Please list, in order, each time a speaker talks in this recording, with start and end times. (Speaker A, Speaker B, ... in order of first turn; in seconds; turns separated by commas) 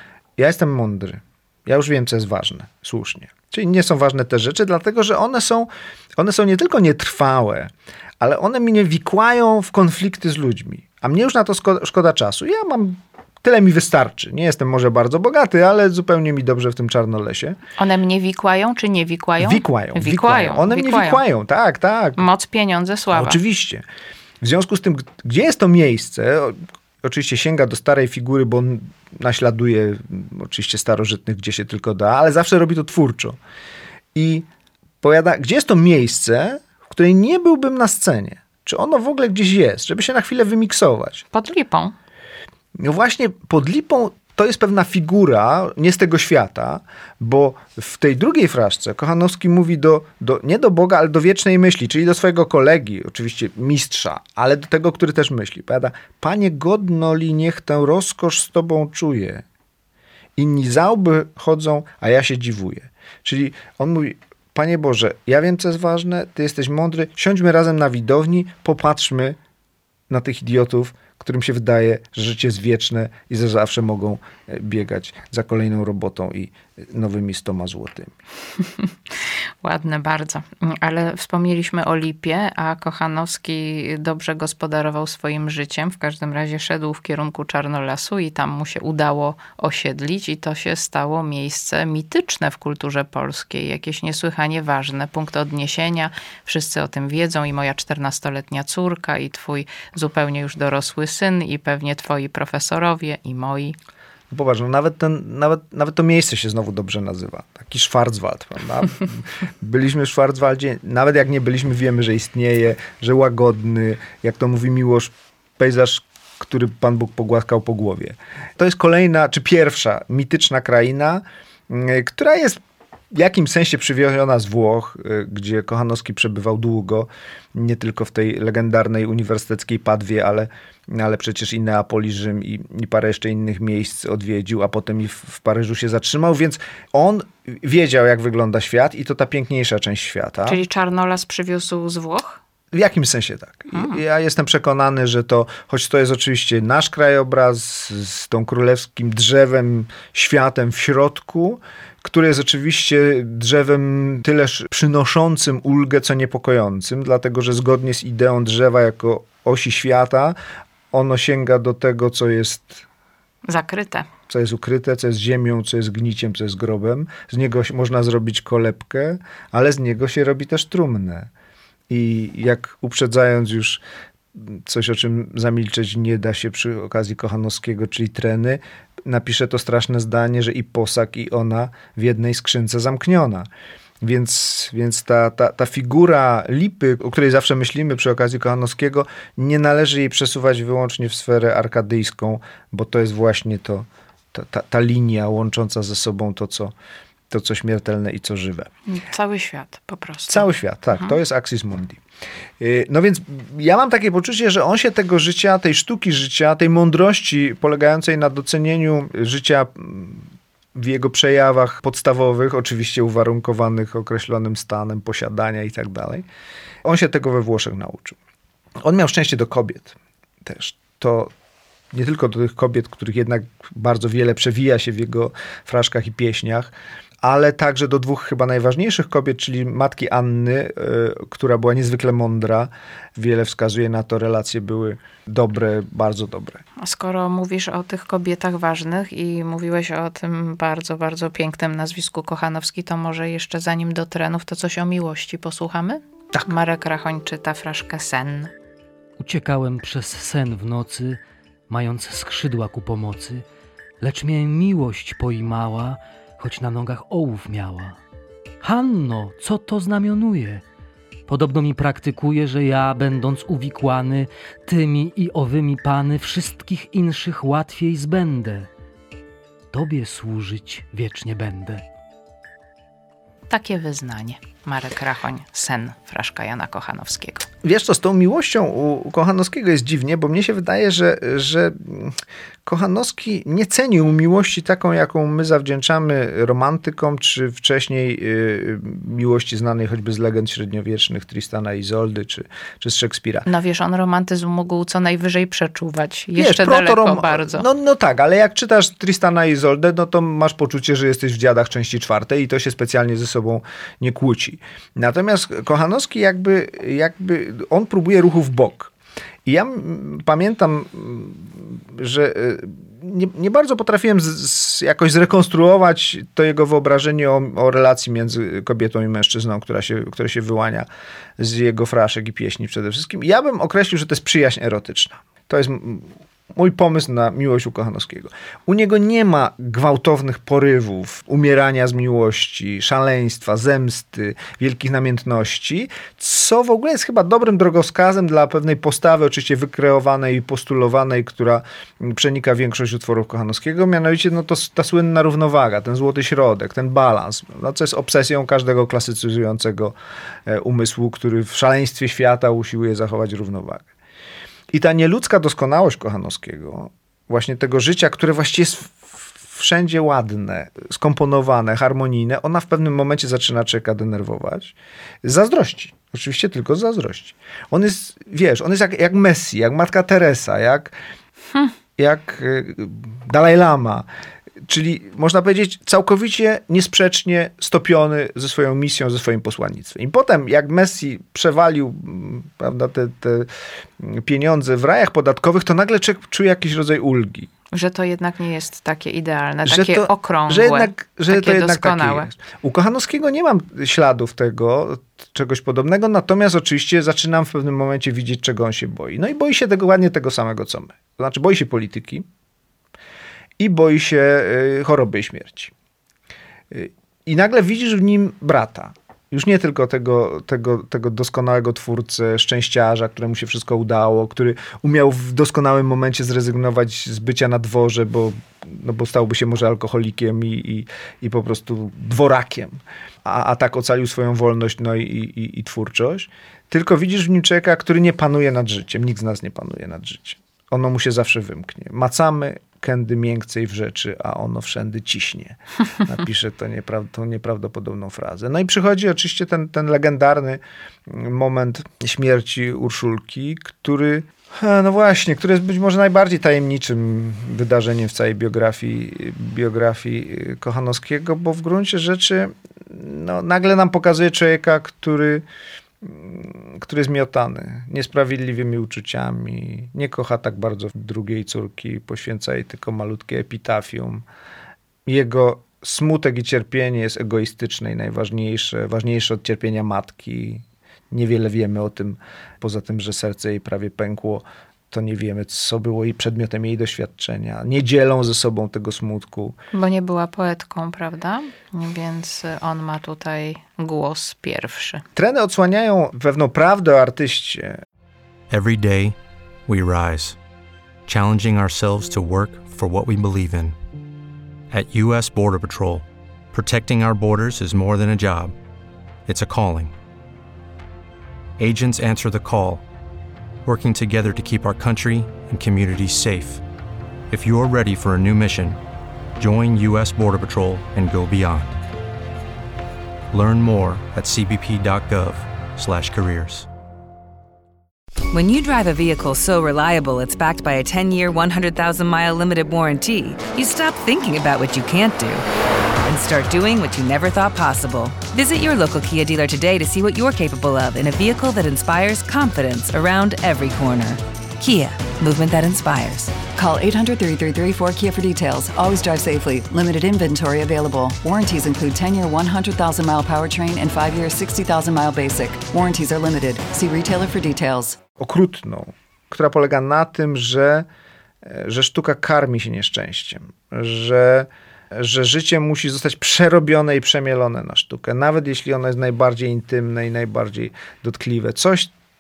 Speaker A: 0.4-17.6, Speaker B: 17.8-21.2, Speaker A: 19.4-22.2, Speaker B: 22.2-23.4, Speaker A: 23.1-23.9, Speaker A: 24.4-33.4, Speaker A: 34.1-34.5, Speaker A: 35.0-41.2, Speaker B: 41.3-41.9, Speaker A: 42.8-59.4, Speaker A: 60.4-69.4, Speaker A: 70.1-78.1, Speaker B: 79.6-103.8, Speaker A: 104.3-122.6, Speaker A: 123.1-140.6, Speaker B: 140.5-142.4, Speaker A: 142.7-160.4, Speaker B: 143.7-144.0, Speaker A: 160.9-162.8, Speaker B: 163.5-164.1, Speaker A: 164.3-171.3, Speaker A: 171.9-173.8, Speaker A: 174.3-183.5, Speaker A: 184.0-196.7, Speaker A: 197.3-198.7, Speaker B: 198.9-201.2, Speaker A: 200.3-202.0, Speaker A: 202.6-216.3, Speaker A: 216.8-218.2, Speaker A: 218.8-221.3, Speaker A: 221.9-236.6, Speaker B: 236.8-248.5, Speaker C: 249.2-253.4, Speaker C: 254.0-258.0, Speaker C: 258.6-260.6, Speaker C: 261.3-268.7, Speaker C: 269.7-271.8, Speaker B: 273.5-277.5, Speaker A: 277.6-293.5, Speaker B: 293.5-297.7, Speaker A: 296.4-308.9, Speaker A: 309.5-353.9, Speaker A: 354.7-370.9, Speaker A: 372.0-374.1, Speaker A: 374.6-387.5, Speaker B: 387.7-392.3, Speaker A: 389.7-402.3, Speaker A: 403.6-405.7, Speaker A: 406.7-455.5, Speaker A: 456.0-464.2, Speaker A: 465.1-479.6, Speaker B: 479.7-485.0, Speaker A: 485.2-487.8, Speaker D: 488.5-490.4, Speaker D: 491.1-493.8, Speaker D: 494.7-498.6, Speaker D: 499.3-500.0, Speaker D: 501.6-502.9, Speaker D: 503.6-506.6, Speaker D: 507.3-508.8, Speaker D: 509.4-511.8, Speaker D: 513.3-516.7, Speaker E: 518.3-525.4, Speaker E: 526.0-536.4, Speaker F: 536.5-548.0, Speaker A: 548.2-550.9, Speaker A: 551.4-561.9